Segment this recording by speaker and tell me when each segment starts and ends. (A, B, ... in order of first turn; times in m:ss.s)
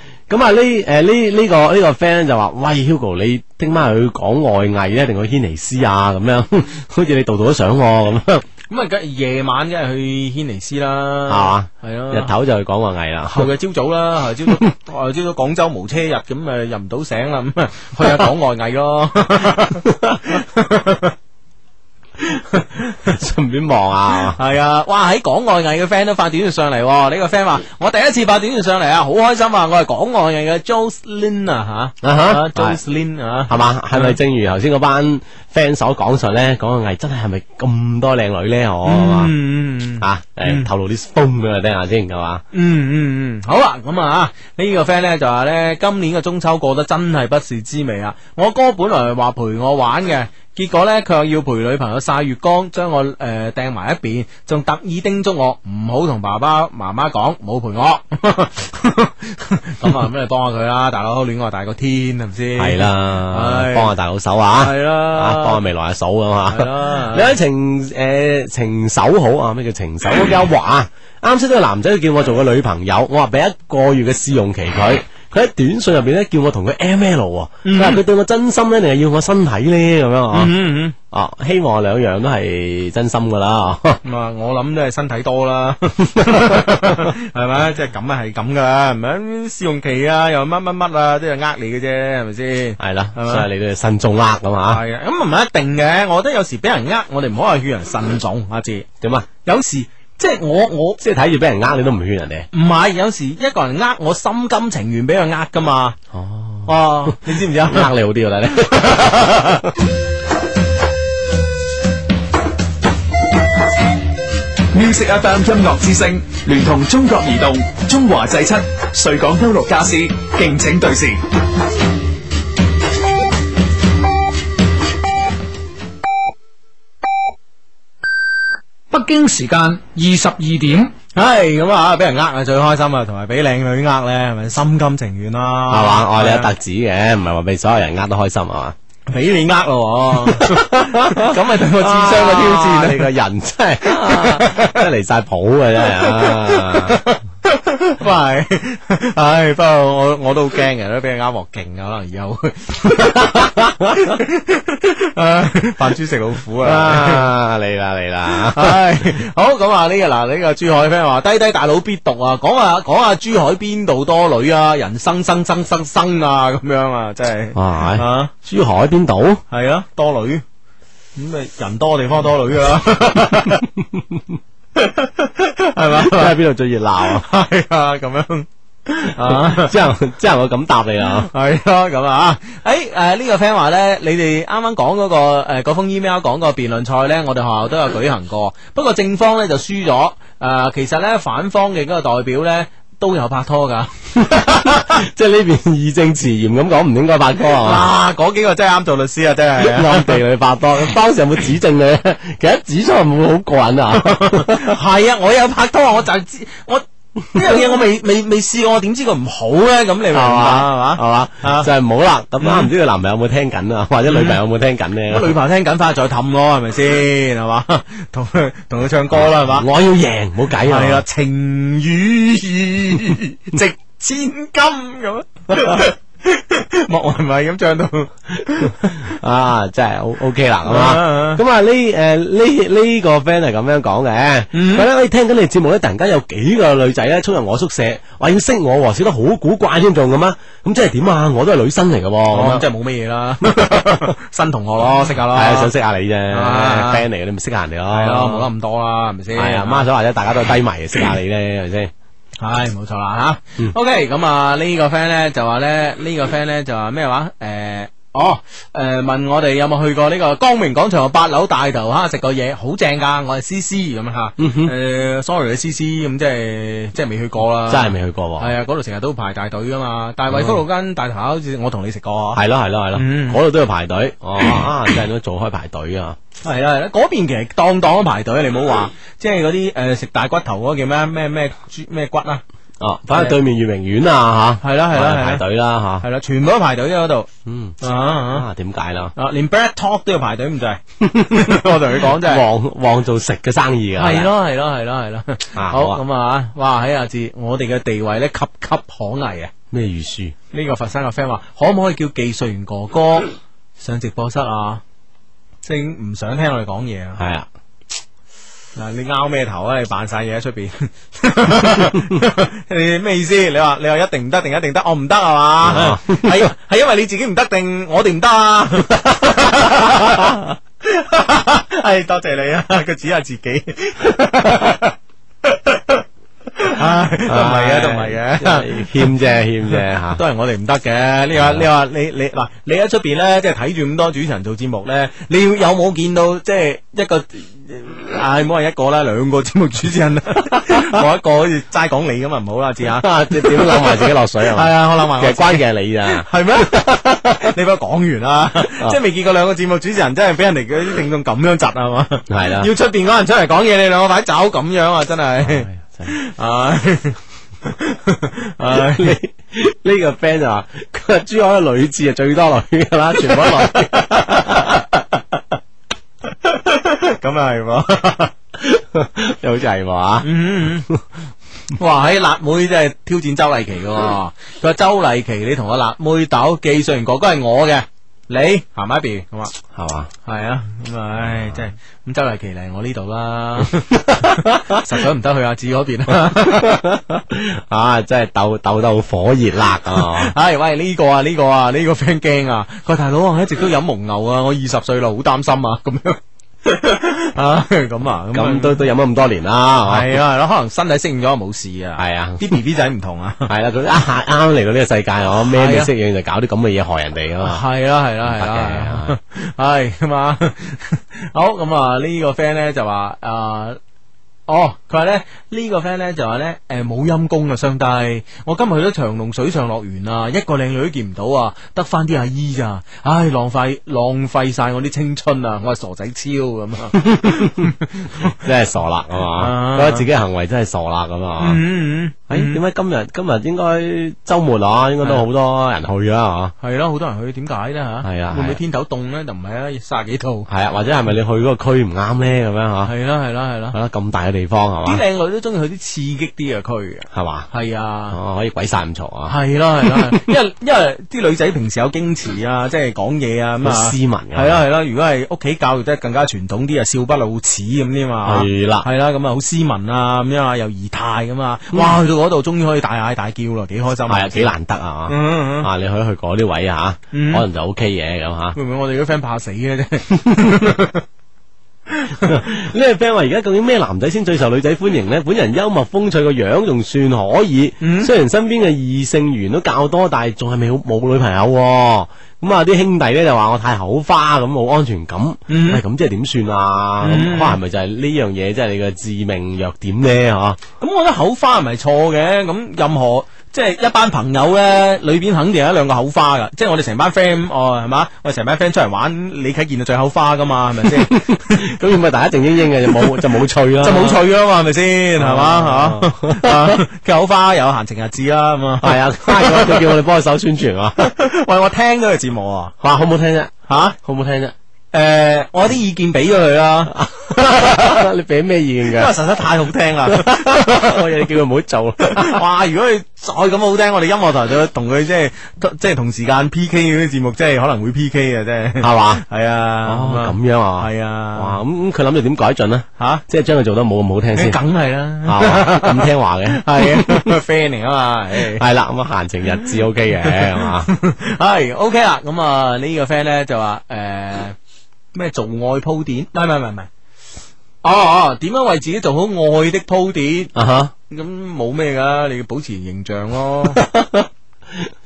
0:00.3-0:08.4 A
0:08.7-0:12.3 B
0:11.3-0:13.5 A
0:13.3-0:21.1 B
0:22.2-0:23.1 B
0:23.2-0:24.4 A
0:24.3-0:34.2 B
0:32.0-0:32.8 A
0:33.5-0:39.3 A
0:38.8-0:40.7 B
0:40.0-0:42.4 A
0:42.5-1:03.9 B
1:02.6-1:20.5 A
1:04.6-1:05.6 B
1:06.5-1:07.4 B
1:17.6-1:18.0 B
1:20.3-1:21.0 B
1:21.1-1:24.0 A
1:24.0-1:33.5 B
1:26.2-1:26.9 A
1:32.8-1:34.8 A
1:34.7-1:38.9 B
1:39.0-1:39.3 A
1:39.4-1:41.0 B
1:41.0-1:42.5 A
1:42.5-1:46.0 B
1:46.1-1:49.7 A
1:46.6-1:47.9 B
1:48.6-1:49.7 B
1:54.7-2:01.2 C
2:08.9-2:10.9 D
2:11.1-2:16.5 B
2:15.7-2:18.7 A
2:19.1-2:23.1 B
2:20.3-2:27.0 A
2:23.9-2:24.8 B
2:25.9-2:37.3 B
2:33.3-2:33.8 A
2:36.6-2:38.8 A
2:38.4-2:48.3 B
2:47.5-2:49.4 A
2:49.5-2:50.4 B
2:51.2-2:53.6 B
2:54.8-2:56.4 B
2:56.0-2:57.2 A
2:57.1-2:59.7 B
2:59.2-3:01.3 A
3:01.3-3:14.9 B
3:14.3-3:17.8 A
3:17.5-3:20.2 B
3:19.6-3:24.7 A
3:23.9-3:31.7 B
3:30.1-3:35.3 A
3:32.4-3:32.7 B
3:34.1-3:34.4 B
3:35.1-3:39.7 B
3:39.1-3:41.0 A
3:40.6-3:49.1 B
3:49.0-4:02.6 A
3:50.6-3:51.4 B
3:54.5-3:54.9 B
4:02.3-4:05.7 B
4:03.6-4:03.9 A
4:05.2-4:08.5 A
4:06.3-4:07.0 B
4:07.9-4:09.9 B
4:09.3-4:11.9 A
4:12.4-4:32.4 B
4:24.4-4:24.7 A
4:27.7-4:28.5 A
4:30.3-4:30.6 A
4:32.3-4:36.2 A
4:32.9-4:33.4 B
4:36.4-4:42.4 B
4:42.8-4:46.0 A
4:43.1-4:43.4 B
4:44.6-4:45.4 B
4:46.0-4:47.3 B
4:47.4-4:47.8 A
4:47.8-4:48.4 B
4:48.3-4:49.1 A
4:49.2-4:52.4 B
4:51.0-4:54.3 A
4:54.0-4:59.5 B
4:55.6-4:56.0 A
4:59.7-5:00.3 A
5:00.5-5:04.8 B
5:05.6-5:07.2 B
5:07.2-5:07.5 A
5:08.8-5:26.0 B
5:15.6-5:16.5 A
5:26.6-5:29.1 B
5:27.2-5:30.2 A
5:29.7-5:59.2 B
5:31.4-5:31.6 A
5:43.0-5:46.9 A
5:52.3-5:52.7 A
5:55.4-5:56.1 A
5:58.7-6:04.7 A
6:03.3-6:05.0 B
6:06.4-6:08.3 B
6:08.6-6:10.3 A
6:10.2-6:10.9 B
6:11.7-6:19.5 B
6:19.7-6:20.1 A
6:20.2-6:26.8 B
6:26.4-6:30.3 A
6:29.9-6:38.8 B
6:38.3-6:40.1 A
6:39.8-6:43.5 B
6:42.0-6:42.4 A
6:43.5-6:47.6 A
6:45.5-6:45.9 B
6:47.4-6:53.8 B
6:48.2-6:49.1 A
6:54.5-7:08.4 B
7:07.0-7:07.7 A
7:08.3-7:11.6 A
7:09.4-7:10.0 B
7:11.4-7:12.6 B
7:12.3-7:16.5 A
7:16.6-7:20.5 B
7:18.0-7:18.6 A
7:20.5-7:22.9 A
7:22.8-7:23.8 B
7:23.7-7:25.0 A
7:24.8-7:28.2 B
7:27.1-7:27.5 A
7:28.1-7:30.2 A
7:29.3-7:44.5 B
7:33.6-7:34.6 A
7:38.2-7:38.9 A
7:44.1-7:48.6 A
7:45.1-7:45.7 B
7:47.1-7:47.4 B
7:48.5-7:51.0 B
7:51.9-7:52.4 B
7:52.2-8:10.6 A
7:57.8-7:58.1 B
8:05.5-8:05.8 B
8:07.0-8:07.6 B
8:10.8-8:21.6 B
8:20.9-8:24.2 A
8:23.8-8:30.0 B
8:25.2-8:26.8 A
8:28.8-8:31.0 A
8:31.0-8:32.7 B
8:32.8-8:34.5 A
8:33.7-8:34.0 B
8:34.9-8:38.0 B
8:36.9-8:39.1 A
8:38.9-8:41.0 B
8:40.1-8:42.4 A
8:42.0-8:51.6 B
8:48.8-8:49.2 A
8:49.8-8:54.6 A
8:53.0-8:53.2 B
8:54.3-8:58.6 B
8:55.2-8:57.3 A
8:58.5-9:00.9 A
9:00.2-9:04.6 B
9:05.1-9:06.9 B
9:07.8-9:10.5 B
9:10.5-9:10.9 A
9:11.1-9:13.8 B
9:13.7-9:14.9 A